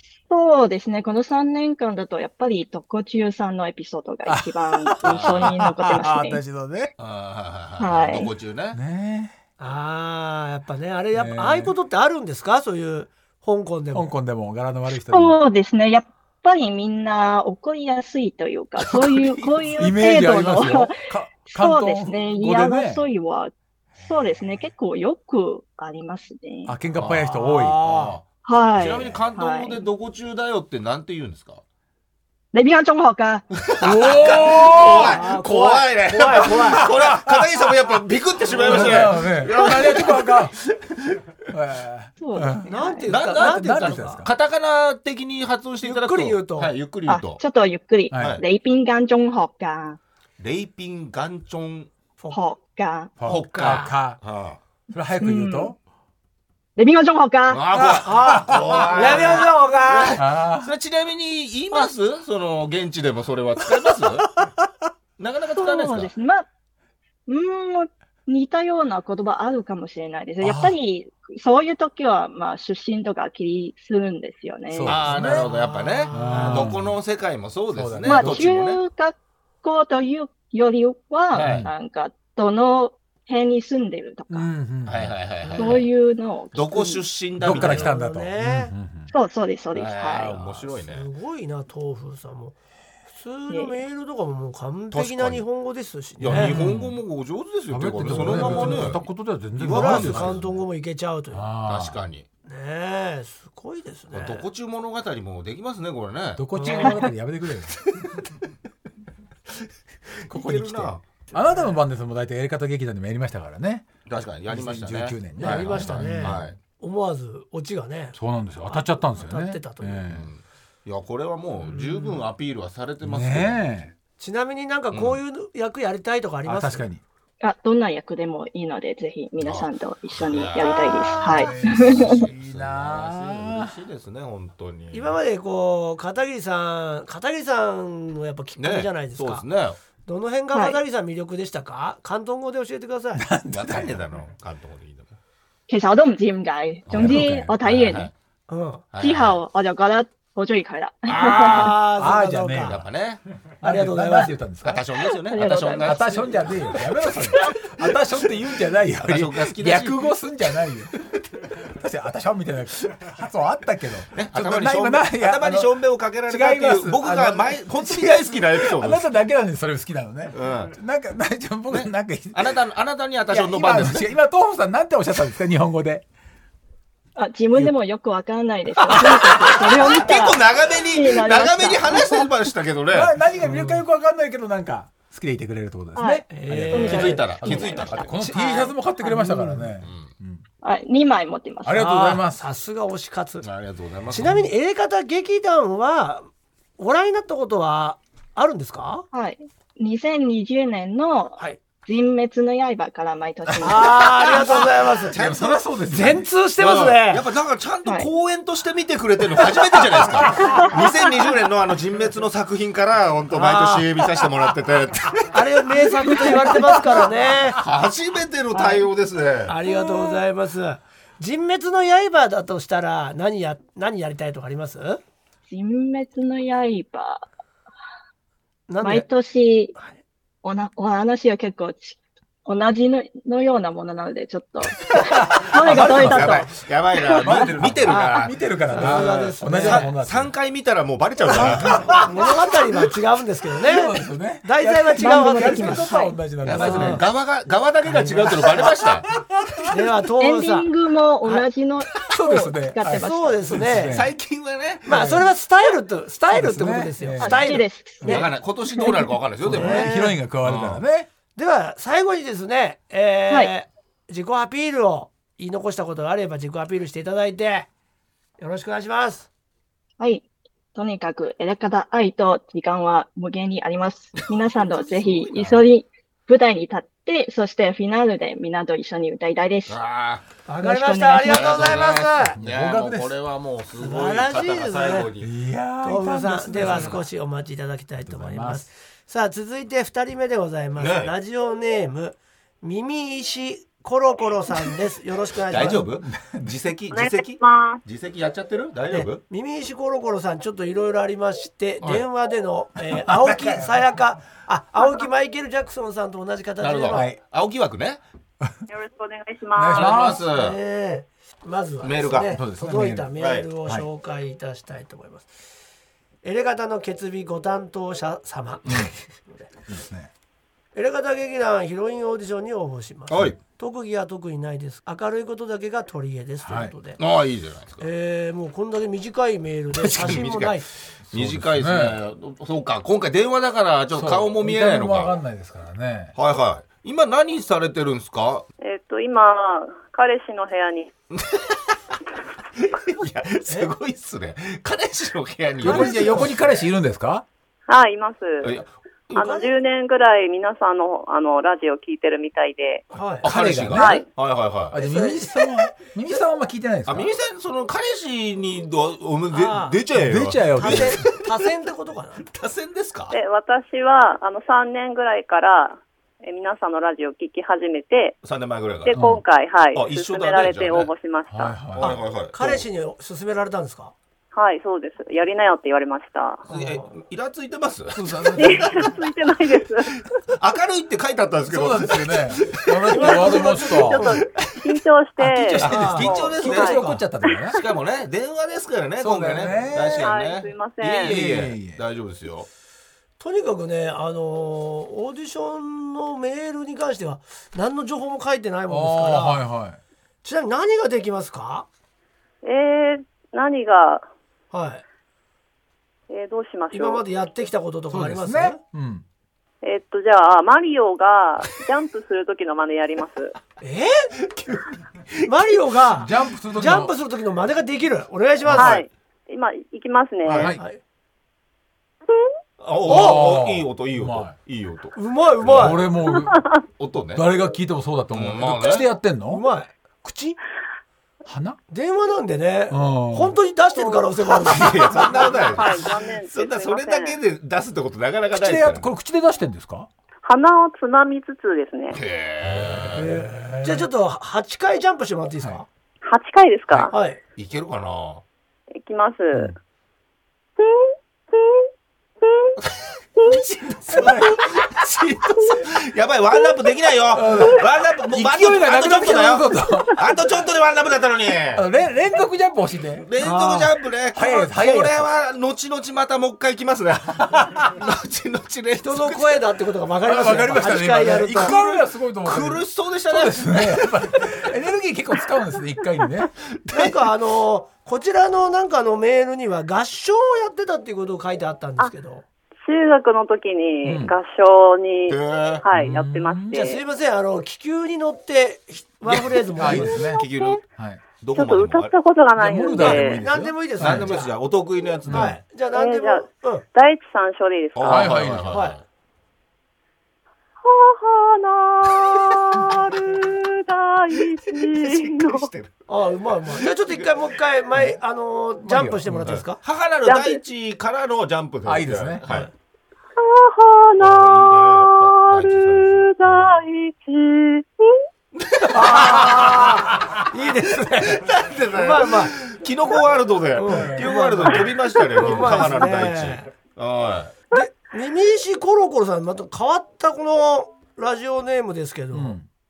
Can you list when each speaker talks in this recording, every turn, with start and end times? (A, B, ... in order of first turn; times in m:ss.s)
0:00.3-0:06.4 A
0:04.3-0:06.9 B
0:05.0-0:05.6 C
0:07.0-0:08.8 C
0:07.8-0:08.3 A
0:08.7-0:09.4 B
0:09.6-0:14.1 D
0:11.1-0:11.7 B
0:13.9-0:15.4 B
0:15.0-0:26.8 A
0:18.9-0:20.0 C
0:19.8-0:23.0 B
0:26.7-0:27.8 B
0:27.0-0:31.6 C
0:27.3-0:28.2 D
0:28.4-0:29.8 A
0:32.5-0:33.5 A
0:33.5-0:41.2 C
0:33.8-0:35.2 B
0:34.8-0:36.9 D
0:36.8-0:37.4 B
0:38.6-0:40.6 B
0:38.7-0:39.0 D
0:41.5-0:44.3 B
0:42.2-0:43.1 A
0:42.7-0:44.2 D
0:43.1-0:47.4 C
0:45.8-0:46.7 D
0:47.1-0:50.0 A
0:48.1-0:48.4 B
0:48.2-0:48.4 C
0:50.4-0:51.9 C
0:52.3-0:53.1 A
0:53.2-0:54.2 B
0:53.3-0:53.9 D
0:53.3-0:54.6 C
0:54.9-0:55.8 B
0:55.2-0:55.7 A
0:56.8-0:57.7 A
0:57.5-1:04.3 C
0:57.8-1:00.2 D
0:57.9-0:59.2 B
1:00.2-1:00.7 B
1:03.9-1:04.7 B
1:05.2-1:06.1 C
1:05.5-1:06.5 A
1:07.3-1:15.1 A
1:10.4-1:10.8 B
1:14.7-1:15.5 B
1:14.9-1:18.8 C
1:15.1-1:16.7 D
1:16.1-1:17.0 B
1:17.7-1:18.5 B
1:18.0-1:24.5 A
1:21.3-1:21.7 C
1:21.4-1:21.7 B
1:24.3-1:25.1 B
1:24.8-1:25.9 C
1:25.4-1:25.8 D
1:25.6-1:27.1 A
1:26.5-1:27.9 C
1:27.4-1:29.1 B
1:27.5-1:28.7 D
1:29.1-1:30.4 A
1:29.7-1:31.1 C
1:30.9-1:32.6 D
1:33.1-1:36.6 D
1:33.5-1:33.8 A
1:34.9-1:35.4 C
1:36.2-1:39.0 C
1:36.3-1:37.0 B
1:37.7-1:40.5 B
1:38.0-1:39.0 D
1:39.6-1:40.5 C
1:39.7-1:41.5 D
1:41.3-1:42.0 B
1:41.6-1:42.3 C
1:42.5-1:44.5 D
1:44.1-1:46.5 C
1:46.4-1:47.8 B
1:46.6-1:47.1 D
1:47.9-1:48.2 C
1:50.3-1:51.0 C
1:50.3-1:53.9 B
1:51.3-1:51.7 D
1:54.1-1:56.6 C
1:54.5-1:56.5 B
1:55.4-2:00.1 D
1:58.2-2:00.3 B
2:00.1-2:03.6 C
2:01.8-2:02.0 D
2:03.0-2:03.9 B
2:04.2-2:06.9 D
2:04.9-2:05.2 C
2:06.4-2:07.0 B
2:07.4-2:12.3 A
2:09.4-2:15.2 C
2:10.8-2:13.7 B
2:14.9-2:19.5 D
2:18.6-2:19.8 C
2:20.0-2:23.2 D
2:20.5-2:20.8 A
2:23.2-2:24.0 B
2:23.5-2:25.1 C
2:25.7-2:28.1 A
2:26.9-2:28.1 C
2:26.9-2:27.6 B
2:28.5-2:28.9 D
2:28.9-2:29.4 C
2:29.0-2:31.7 A
2:31.1-2:31.7 C
2:31.2-2:32.8 D
2:31.6-2:32.8 B
2:32.6-2:33.2 C
2:33.6-2:34.3 D
2:33.6-2:34.8 B
2:34.6-2:36.9 C
2:35.3-2:36.3 A
2:35.4-2:41.0 B
2:39.0-2:40.1 C
2:41.6-2:52.6 B
2:44.1-2:49.1 C
2:50.3-2:50.8 C
2:51.7-2:54.2 C
2:53.3-2:56.0 B
2:57.2-3:02.3 A
2:58.9-2:59.7 B
2:58.9-3:03.2 C
3:02.9-3:10.4 B
3:03.4-3:03.8 D
3:06.0-3:07.9 A
3:06.3-3:09.7 D
3:06.7-3:08.1 C
3:09.8-3:10.1 C
3:10.6-3:11.9 A
3:11.6-3:12.4 B
3:11.7-3:13.5 D
3:13.4-3:14.3 C
3:14.1-3:16.3 D
3:16.8-3:19.1 D
3:19.1-3:24.4 A
3:23.6-3:25.2 D
3:24.4-3:25.6 C
3:24.4-3:26.3 B
3:25.9-3:27.2 D
3:26.6-3:35.8 C
3:33.3-3:33.9 D
3:35.3-3:37.6 D
3:37.5-3:39.6 C
3:38.5-3:38.8 A
3:39.5-3:45.0 D
3:45.5-3:47.2 A
3:48.7-3:49.1 D
3:48.8-3:49.8 A
3:50.4-3:56.5 A
3:54.9-3:56.5 B
3:55.6-4:02.0 C
3:57.1-4:00.3 B
3:57.9-3:59.9 D
4:01.3-4:02.1 B
4:01.4-4:05.9 D
4:03.6-4:07.0 B
4:05.0-4:06.2 A
4:06.4-4:09.1 C
4:06.5-4:07.0 D
4:07.9-4:09.7 B
4:09.7-4:10.7 D
4:10.2-4:13.6 A
4:12.0-4:14.1 B
4:13.0-4:14.0 D
4:13.9-4:15.1 C
4:14.9-4:18.3 D
4:14.9-4:15.2 B
4:16.3-4:18.3 B
4:17.2-4:18.3 A
4:18.0-4:20.8 C
4:18.8-4:19.1 A
4:19.4-4:21.1 B
4:19.5-4:20.2 D
4:21.4-4:27.7 D
4:28.4-4:29.3 D
4:30.0-4:39.8 A
4:34.2-4:35.7 C
4:39.7-4:40.2 C
4:40.5-4:42.4 D
4:40.6-4:41.7 A
4:41.3-4:45.3 C
4:42.4-4:43.1 B
4:43.8-4:45.1 D
4:45.2-4:47.0 B
4:45.8-4:55.9 D
4:46.6-4:47.0 C
4:48.1-4:48.6 B
4:50.8-4:51.1 C
4:55.5-4:59.2 C
4:55.6-4:56.5 B
4:56.9-4:57.8 E
4:58.9-5:07.1 D
5:03.1-5:03.8 B
5:06.6-5:08.0 C
5:06.9-5:07.2 B
5:08.7-5:10.1 E
5:09.6-5:10.2 B
5:09.7-5:10.6 C
5:10.3-5:15.3 D
5:11.8-5:12.4 C
5:12.3-5:13.1 B
5:13.2-5:13.5 C
5:16.2-5:19.4 D
5:19.7-5:20.1 B
5:20.8-5:27.0 D
5:23.1-5:23.4 C
5:26.4-5:26.7 B
5:27.0-5:27.8 C
5:27.8-5:30.7 D
5:29.8-5:35.2 C
5:31.1-5:32.0 B
5:33.9-5:36.1 B
5:36.2-5:38.5 C
5:38.6-5:40.9 E
5:41.1-5:41.7 C
5:42.6-5:46.4 C
5:45.6-5:47.3 B
5:45.6-5:46.3 D
5:47.7-5:48.6 E
5:48.4-5:49.4 C
5:49.2-5:52.9 E
5:49.2-5:49.5 D
5:52.9-5:53.3 D
5:53.2-5:54.0 B
5:53.2-5:54.8 C
5:53.7-5:54.0 E
5:54.7-5:57.1 B
5:54.8-5:55.3 D
5:56.9-6:01.4 C
5:59.3-5:59.8 D
5:59.9-6:01.0 B
6:00.6-6:02.2 D
6:02.2-6:03.2 C
6:03.1-6:08.2 E
6:08.2-6:09.0 C
6:08.8-6:11.6 E
6:08.9-6:09.2 B
6:09.7-6:10.9 C
6:11.3-6:12.0 B
6:11.8-6:12.6 C
6:11.8-6:13.9 D
6:14.3-6:16.4 E
6:16.5-6:18.9 C
6:16.5-6:16.9 D
6:17.9-6:18.9 B
6:18.4-6:20.0 E
6:20.0-6:24.7 C
6:21.5-6:24.2 B
6:22.9-6:24.0 D
6:23.0-6:26.8 E
6:25.2-6:27.6 B
6:25.6-6:26.8 C
6:25.6-6:27.0 D
6:27.6-6:32.5 C
6:29.0-6:30.1 B
6:29.9-6:31.2 E
6:31.0-6:31.8 B
6:33.2-6:39.4 D
6:38.7-6:39.8 B
6:40.2-6:41.7 D
6:42.4-6:44.1 E
6:44.5-6:44.8 D
6:46.1-6:47.0 E
6:46.7-6:48.6 D
6:47.9-6:49.0 B
6:49.6-6:53.3 E
6:53.6-6:54.1 D
6:54.2-6:55.3 C
6:55.2-6:58.8 D
6:55.9-6:56.9 B
6:58.5-6:58.8 C
6:58.5-7:00.5 E
7:00.3-7:00.5 C
7:02.6-7:05.8 C
7:02.8-7:04.4 B
7:02.9-7:03.2 D
7:05.0-7:05.8 D
7:05.5-7:06.4 B
7:06.2-7:06.6 E
7:06.8-7:07.3 C
7:07.1-7:09.4 B
7:08.1-7:08.9 C
7:09.3-7:10.4 D
7:11.3-7:11.6 B
7:11.7-7:15.6 D
7:12.7-7:13.4 B
7:14.4-7:18.9 C
7:15.5-7:17.2 E
7:18.4-7:19.9 B
7:20.2-7:22.0 E
7:21.9-7:23.2 C
7:22.6-7:23.7 B
7:23.0-7:25.7 D
7:26.0-7:26.9 E
7:26.9-7:27.2 D
7:27.4-7:28.2 C
7:28.8-7:29.5 E
7:30.6-7:31.7 E
7:32.2-7:32.6 E
7:32.6-7:41.7 C
7:33.9-7:34.6 B
7:37.1-7:40.0 B
7:41.6-7:43.1 B
7:43.0-7:49.4 C
7:43.2-7:43.7 D
7:44.2-7:45.1 B
7:47.4-7:47.6 B
7:48.8-7:51.6 D
7:50.0-7:56.3 B
7:51.3-7:54.3 C
7:56.5-7:57.0 C
7:56.7-8:02.2 D
8:02.6-8:06.8 E
8:03.8-8:04.1 B
8:05.1-8:05.6 C
8:05.7-8:06.6 B
8:06.5-8:10.1 D
8:09.1-8:10.6 C
8:09.6-8:10.2 B
8:10.1-8:10.6 E
8:11.2-8:11.9 C
8:11.3-8:13.2 E
8:12.4-8:14.2 B
8:12.8-8:14.3 D
8:13.8-8:15.4 C
8:15.1-8:15.4 B
8:15.1-8:16.6 D
8:15.7-8:18.3 E
8:17.8-8:18.8 C
8:17.9-8:18.7 B
8:18.5-8:18.8 D
8:20.6-8:25.5 E
8:22.1-8:22.8 C
8:24.5-8:25.7 C
8:25.9-8:29.6 D
8:26.6-8:27.3 C
8:28.6-8:29.4 B
8:29.3-8:32.5 C
8:30.0-8:30.4 E
8:31.7-8:32.2 B
8:32.2-8:32.5 D
8:33.2-8:38.0 E
8:34.0-8:36.6 C
8:38.4-8:40.2 C
8:38.7-8:42.4 D
8:41.1-8:47.4 C
8:43.6-8:46.5 D
8:45.4-8:45.8 B
8:47.5-8:52.4 D
8:52.1-8:52.5 B